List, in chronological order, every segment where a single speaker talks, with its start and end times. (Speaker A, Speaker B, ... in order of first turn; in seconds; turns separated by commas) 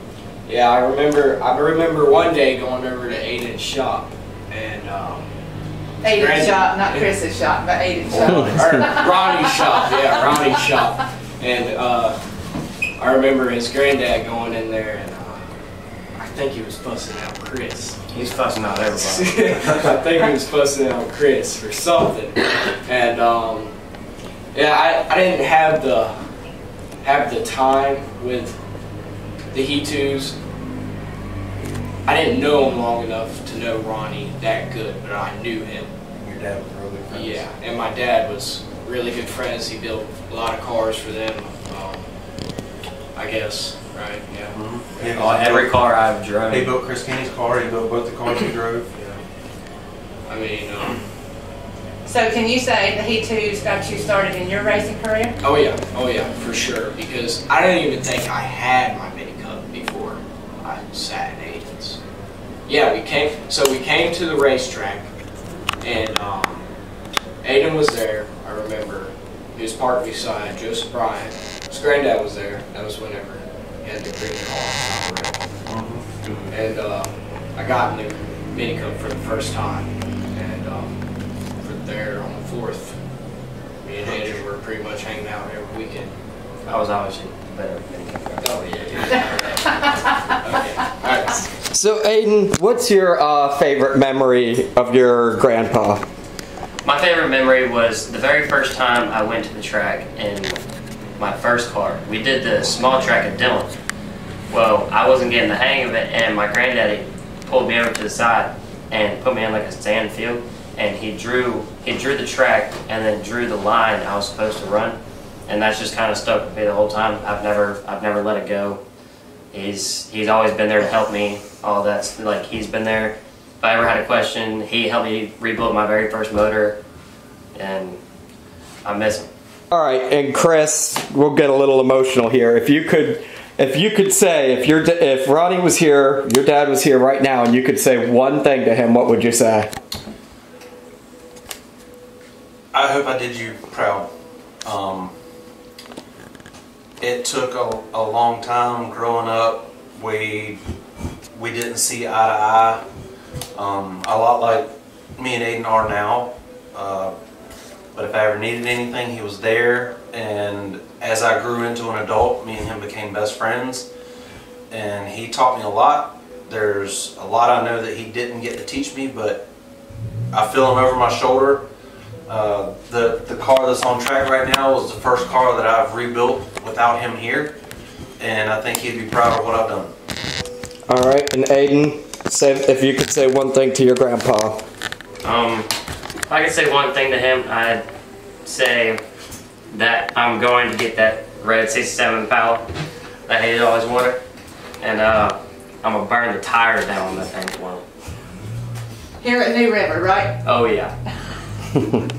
Speaker A: 0.5-5.3, Speaker B: 6.0-10.5, Speaker A: 6.0-7.1, Speaker C: 8.1-8.7, Speaker D: 8.3-8.6, Speaker A: 8.3-12.2, Speaker A: 13.0-15.4, Speaker A: 16.1-18.2, Speaker E: 18.1-20.0, Speaker A: 18.9-23.7, Speaker A: 24.5-26.1, Speaker A: 27.0-28.6, Speaker A: 29.5-30.4, Speaker A: 32.0-35.9, Speaker C: 36.2-37.4, Speaker A: 37.1-42.1, Speaker A: 43.1-45.3, Speaker C: 44.5-45.7, Speaker E: 45.1-46.7, Speaker C: 46.5-48.9, Speaker A: 48.9-49.2, Speaker A: 50.3-51.0, Speaker B: 52.0-55.3, Speaker A: 55.4-62.0, Speaker A: 62.6-65.1, Speaker A: 65.8-66.7, Speaker A: 67.4-75.4, Speaker C: 75.7-76.5, Speaker A: 76.5-80.9, Speaker A: 81.6-83.0, Speaker A: 83.8-86.1, Speaker C: 84.0-84.4, Speaker E: 86.7-89.2, Speaker A: 88.4-91.5, Speaker D: 91.7-96.0, Speaker E: 96.8-100.6, Speaker E: 101.2-103.8, Speaker E: 104.5-118.8, Speaker E: 119.5-126.8, Speaker E: 127.5-128.0, Speaker E: 128.8-129.3, Speaker D: 129.7-139.7, Speaker C: 142.7-144.1, Speaker C: 144.6-145.1, Speaker C: 147.0-150.6, Speaker C: 151.3-152.8, Speaker C: 153.6-157.1, Speaker C: 157.9-163.9, Speaker C: 164.7-169.4, Speaker C: 170.3-171.6, Speaker C: 172.3-177.5, Speaker C: 178.2-179.9, Speaker D: 180.9-184.6, Speaker E: 185.2-185.7, Speaker E: 186.3-187.8, Speaker E: 188.4-189.0, Speaker E: 189.7-192.7, Speaker E: 193.3-194.2, Speaker E: 194.8-197.8, Speaker B: 199.2-200.4, Speaker E: 200.4-200.9, Speaker D: 201.8-202.0